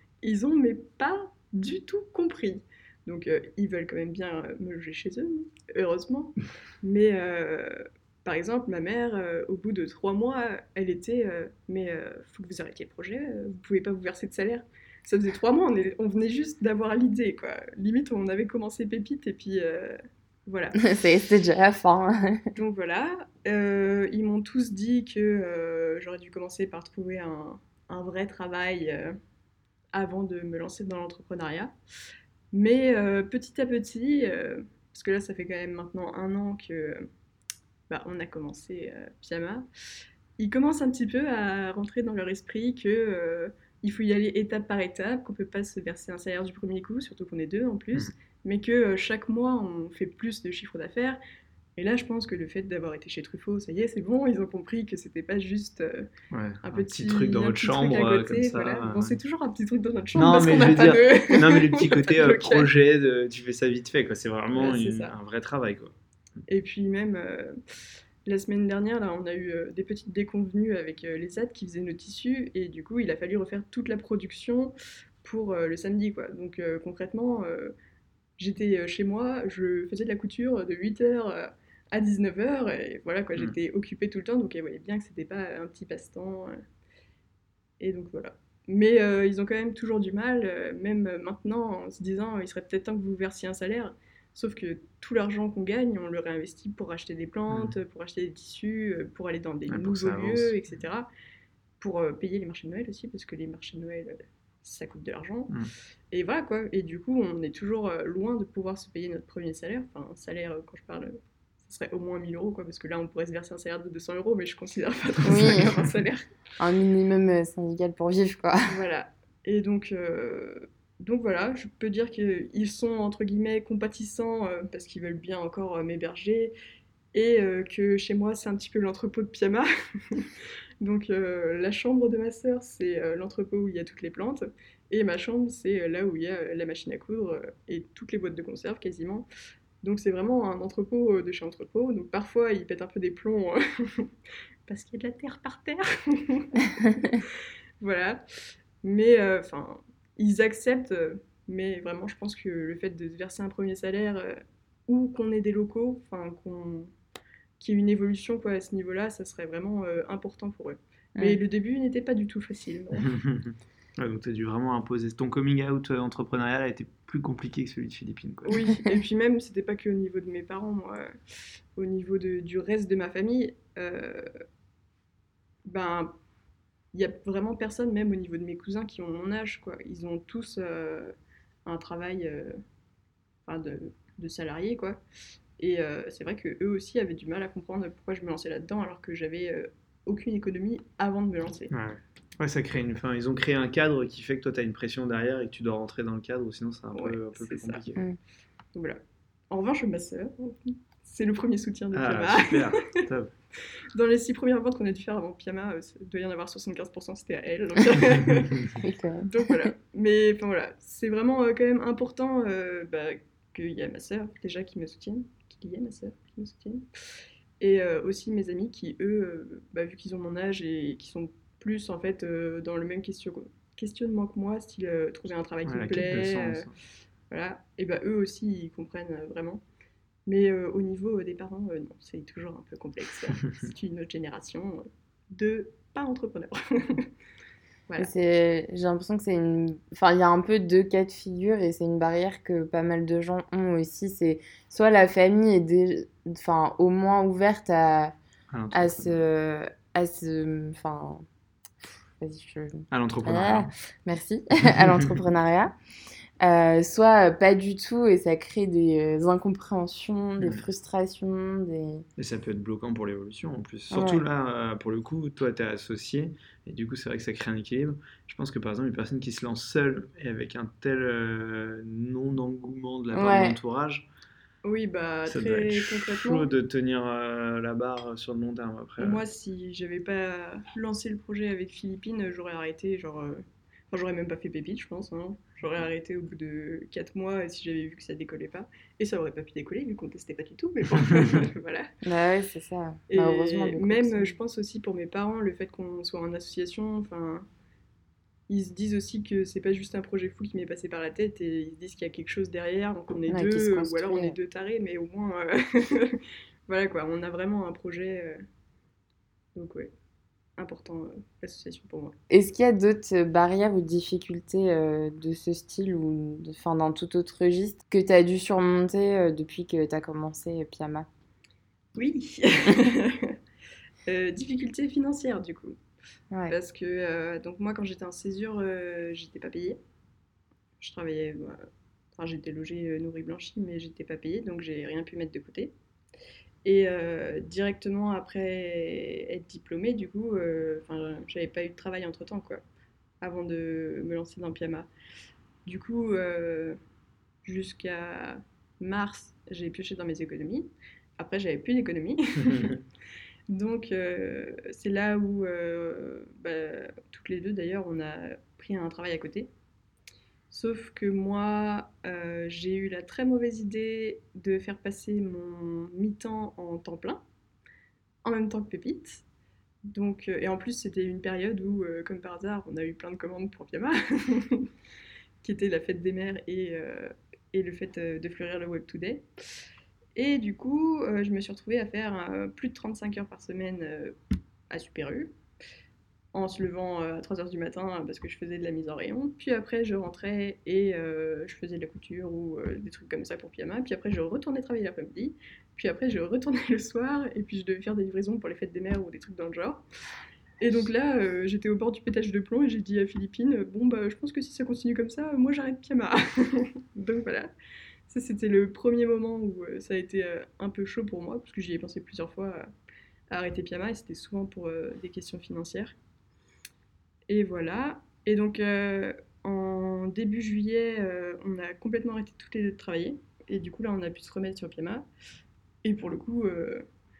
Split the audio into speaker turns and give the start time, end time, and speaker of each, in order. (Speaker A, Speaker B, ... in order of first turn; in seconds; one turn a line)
Speaker A: 0.2-20.8
Speaker B: 20.8-22.5
Speaker A: 22.6-29.2
Speaker A: 29.9-31.7
Speaker A: 32.5-37.1
Speaker A: 37.9-39.7
Speaker A: 40.4-51.2
Speaker A: 51.8-56.1
Speaker C: 56.3-59.2
Speaker A: 56.6-62.7
Speaker C: 60.1-65.9
Speaker A: 64.5-65.1
Speaker A: 66.5-67.6
Speaker A: 68.2-77.7
Speaker A: 78.4-86.6
Speaker A: 87.8-101.1
Speaker C: 97.5-97.8
Speaker C: 99.7-100.8
Speaker A: 101.8-105.5
Speaker A: 106.1-116.3
Speaker B: 115.2-115.7
Speaker C: 115.3-115.7
Speaker B: 116.6-118.8
Speaker A: 118.7-126.5
Speaker A: 127.1-130.3
Speaker A: 130.8-139.3
Speaker A: 139.8-144.1
Speaker A: 144.7-147.3
Speaker A: 147.8-148.2
Speaker A: 148.8-156.9
Speaker A: 157.6-163.2
Speaker C: 163.0-168.6
Speaker A: 168.5-171.2
Speaker A: 171.7-174.3
Speaker A: 175.7-176.1
Speaker A: 176.9-181.1
Speaker A: 181.6-182.6
Speaker A: 183.5-185.0
Speaker A: 185.6-191.7
Speaker C: 191.7-198.0
Speaker A: 196.9-198.0
Speaker A: 198.8-203.0
Speaker C: 201.9-203.3
Speaker A: 203.9-216.9
Speaker B: 208.8-209.7
Speaker A: 217.6-226.7
Speaker C: 225.7-226.7
Speaker A: 227.3-229.6
Speaker A: 230.3-237.1
Speaker B: 238.0-248.1
Speaker C: 248.5-249.2
Speaker B: 248.7-251.2
Speaker B: 252.2-255.7
Speaker C: 252.9-253.7
Speaker C: 254.8-255.2
Speaker B: 256.4-262.1
Speaker C: 262.2-274.1
Speaker B: 263.9-264.2
Speaker B: 273.1-273.6
Speaker A: 274.6-276.5
Speaker C: 275.3-279.2
Speaker A: 279.0-291.9
Speaker B: 292.0-294.4
Speaker A: 293.1-297.5
Speaker A: 298.5-308.4
Speaker B: 303.3-304.4
Speaker A: 309.6-309.9
Speaker A: 310.6-312.1
Speaker B: 312.3-321.1
Speaker A: 321.9-323.4
Speaker A: 324.1-325.8
Speaker A: 326.5-329.8
Speaker A: 330.8-331.7
Speaker A: 332.2-335.7
Speaker A: 336.6-342.6
Speaker A: 343.2-344.9
Speaker A: 345.6-346.8
Speaker A: 347.4-352.8
Speaker C: 352.4-352.8
Speaker A: 353.5-359.5
Speaker A: 360.5-367.2
Speaker A: 368.2-369.2
Speaker A: 369.9-374.7
Speaker A: 375.4-379.3
Speaker A: 380.1-384.1
Speaker A: 384.7-385.4
Speaker A: 386.3-399.8
Speaker A: 400.6-407.5
Speaker A: 408.1-412.7
Speaker A: 413.3-415.9
Speaker A: 417.3-425.1
Speaker A: 425.8-426.9